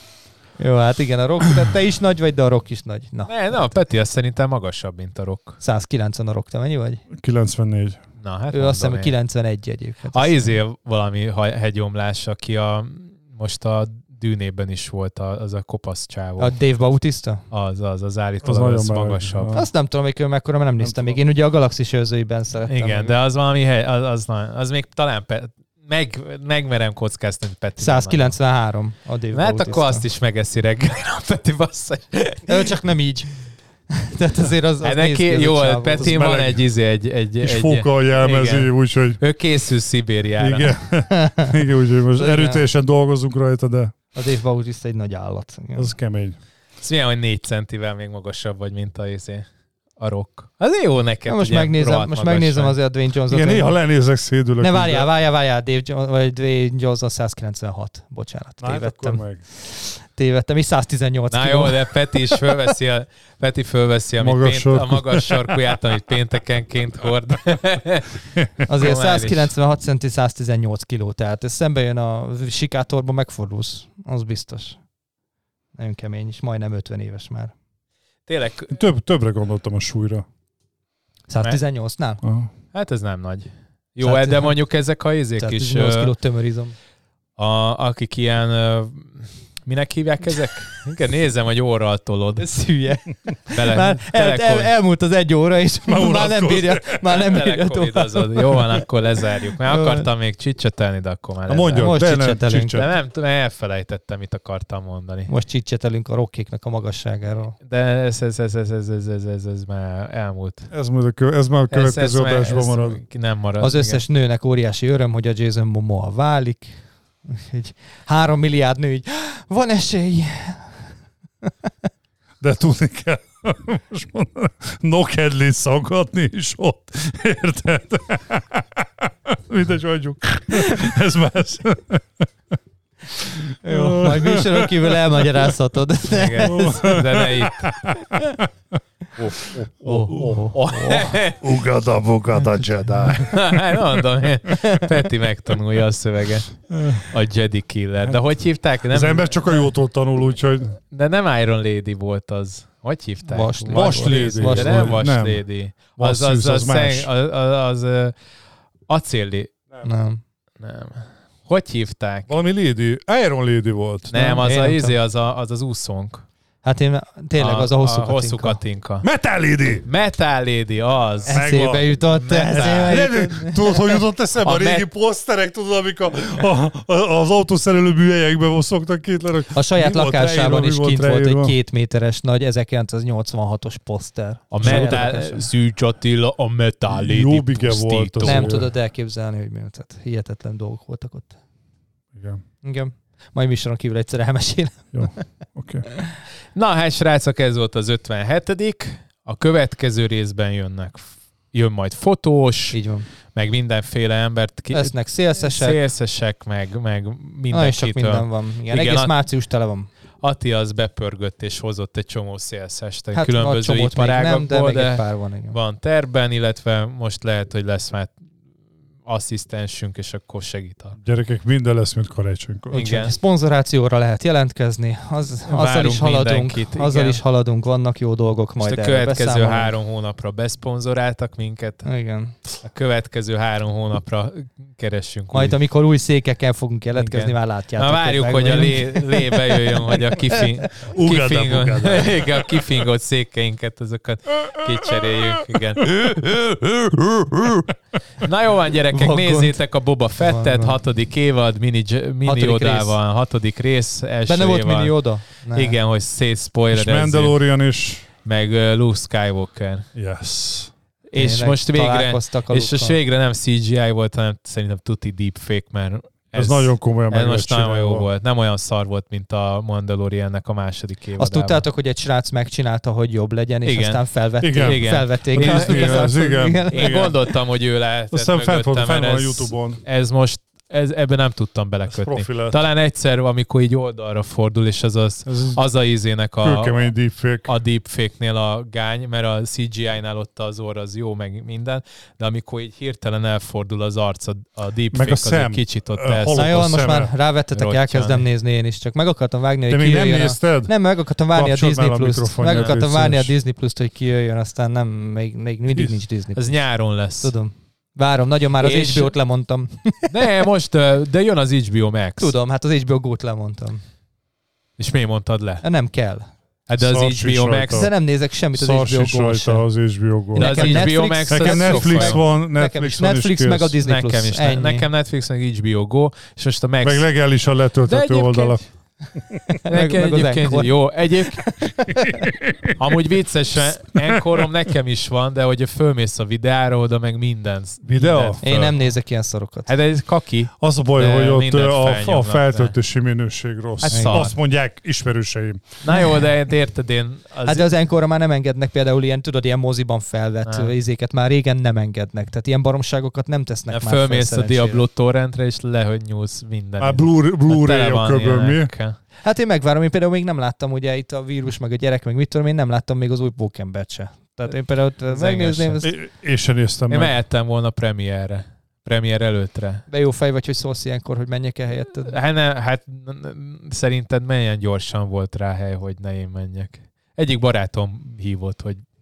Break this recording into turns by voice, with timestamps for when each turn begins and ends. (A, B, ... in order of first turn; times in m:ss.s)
0:00.6-0:03.3 A
0:03.3-0:05.6 B
0:05.6-0:07.0 A
0:07.1-0:08.0 C
0:08.2-0:09.1 B
0:08.5-0:10.5 A
0:10.1-0:16.6 B
0:16.4-0:17.4 A
0:17.5-0:19.6 B
0:18.4-0:19.6 C
0:19.5-0:23.2 A
0:20.8-0:21.2 C
0:22.7-0:28.4 B
0:27.8-0:30.0 A
0:29.3-0:32.7 B
0:32.5-0:33.3 A
0:33.9-0:36.2 A
0:34.8-0:40.8 B
0:36.0-0:36.6 C
0:37.4-0:39.2 C
0:40.4-0:43.9 C
0:41.1-0:41.6 A
0:42.2-0:42.6 A
0:44.2-0:45.9 A
0:45.8-0:46.4 C
0:46.8-0:49.5 B
0:50.0-0:52.8 B
0:51.3-0:53.8 A
0:53.3-0:55.1 C
0:54.6-1:01.8 A
0:58.6-0:59.4 C
1:01.3-1:08.1 B
1:04.2-1:05.6 C
1:08.7-1:14.8 A
1:08.7-1:09.5 B
1:15.8-1:17.5 A
1:18.3-1:18.8 B
1:18.7-1:20.2 C
1:21.3-1:22.2 A
1:22.2-1:22.5 C
1:22.7-1:26.1 B
1:24.0-1:24.6 A
1:25.4-1:26.8 A
1:27.4-1:32.4 B
1:32.4-1:38.8 A
1:33.5-1:34.7 B
1:35.9-1:37.0 C
1:37.1-1:42.0 B
1:39.6-1:40.0 A
1:41.5-1:42.9 C
1:41.7-1:42.8 A
1:42.7-1:45.3 B
1:45.3-1:47.6 A
1:47.6-1:50.7 B
1:50.7-1:53.0 C
1:51.7-1:54.0 B
1:53.6-2:00.8 A
2:02.4-2:12.3 C
2:13.2-2:15.3 C
2:13.6-2:16.9 A
2:16.1-2:18.0 B
2:16.4-2:18.5 C
2:19.2-2:21.6 B
2:19.4-2:24.0 C
2:19.8-2:21.1 A
2:23.2-2:29.5 B
2:24.5-2:24.9 A
2:26.7-2:27.1 C
2:28.9-2:30.8 C
2:30.9-2:38.1 B
2:33.3-2:35.0 A
2:33.7-2:35.4 C
2:36.0-2:37.1 C
2:38.9-2:39.5 B
2:39.8-2:40.2 A
2:40.6-2:42.3 B
2:42.3-2:44.1 C
2:44.1-2:46.2 B
2:44.1-2:45.0 A
2:46.6-2:48.6 A
2:47.4-2:49.1 B
2:49.0-2:49.8 C
2:49.8-2:51.4 B
2:51.3-3:01.6 C
2:51.3-2:53.8 A
2:52.1-2:53.3 B
2:54.4-2:54.9 B
2:59.5-3:05.5 A
3:04.5-3:08.6 B
3:04.6-3:05.2 C
3:06.9-3:08.7 C
3:08.2-3:11.4 A
3:12.1-3:12.4 C
3:12.6-3:15.2 A
3:14.9-3:15.8 C
3:16.6-3:22.8 B
3:22.7-3:23.1 A
3:23.3-3:29.1 B
3:24.7-3:25.8 A
3:27.5-3:29.9 A
3:30.2-3:38.1 B
3:33.1-3:35.6 A
3:39.1-3:41.0 B
3:41.0-3:42.9 C
3:42.7-3:43.2 B
3:42.7-3:49.7 A
3:45.5-3:47.2 B
3:48.6-3:51.9 B
3:51.8-3:52.4 A
3:52.6-3:55.6 B
3:55.3-4:00.5 A
3:57.0-4:07.7 B
4:00.9-4:02.6 C
4:05.0-4:06.2 C
4:08.2-4:17.4 B
4:08.9-4:09.6 A
4:10.2-4:10.8 A
4:12.2-4:13.0 A
4:14.3-4:15.8 A
4:16.7-4:18.1 C
4:18.2-4:19.9 B
4:20.0-4:20.7 C
4:21.1-4:31.6 B
4:21.2-4:23.0 A
4:26.3-4:28.1 C
4:31.2-4:37.2 A
4:33.6-4:36.2 B
4:34.4-4:37.2 C
4:36.7-4:46.9 B
4:38.1-4:39.8 C
4:41.9-4:42.6 C
4:45.3-4:45.6 C
4:46.4-4:47.5 C
4:47.5-4:56.8 B
4:54.9-4:57.1 C
4:56.3-5:06.6 A
4:57.5-4:58.3 B
4:59.7-5:00.7 C
5:01.3-5:03.3 C
5:02.5-5:02.8 B
5:06.3-5:07.3 B
5:07.2-5:10.3 A
5:08.6-5:09.1 B
5:10.1-5:12.3 B
5:12.2-5:13.8 A
5:14.8-5:15.6 B
5:15.6-5:16.3 A
5:16.7-5:17.9 B
5:16.8-5:17.9 C
5:17.7-5:19.6 A
5:18.6-5:23.8 C
5:20.3-5:24.9 A
5:20.4-5:22.2 B
5:23.8-5:27.0 B
5:26.8-5:28.6 C
5:27.9-5:28.6 B
5:29.5-5:30.7 A
5:29.7-5:31.4 B
5:31.2-5:32.3 A
5:32.1-5:32.8 C
5:32.8-5:38.9 B
5:34.0-5:34.4 C
5:37.8-5:38.4 C
5:38.4-5:39.7 A
5:39.7-5:42.7 B
5:40.6-5:45.6 C
5:43.8-5:44.3 B
5:43.9-5:44.3 A
5:45.8-5:47.7 B
5:45.9-5:46.2 A
5:47.4-5:54.8 A
5:50.5-5:50.7 B
5:53.7-5:59.0 B
5:56.8-5:58.7 C
5:59.2-6:05.9 A
6:05.1-6:05.8 B
6:05.8-6:07.1 C
6:06.9-6:09.8 B
6:09.9-6:12.2 A
6:11.9-6:18.8 B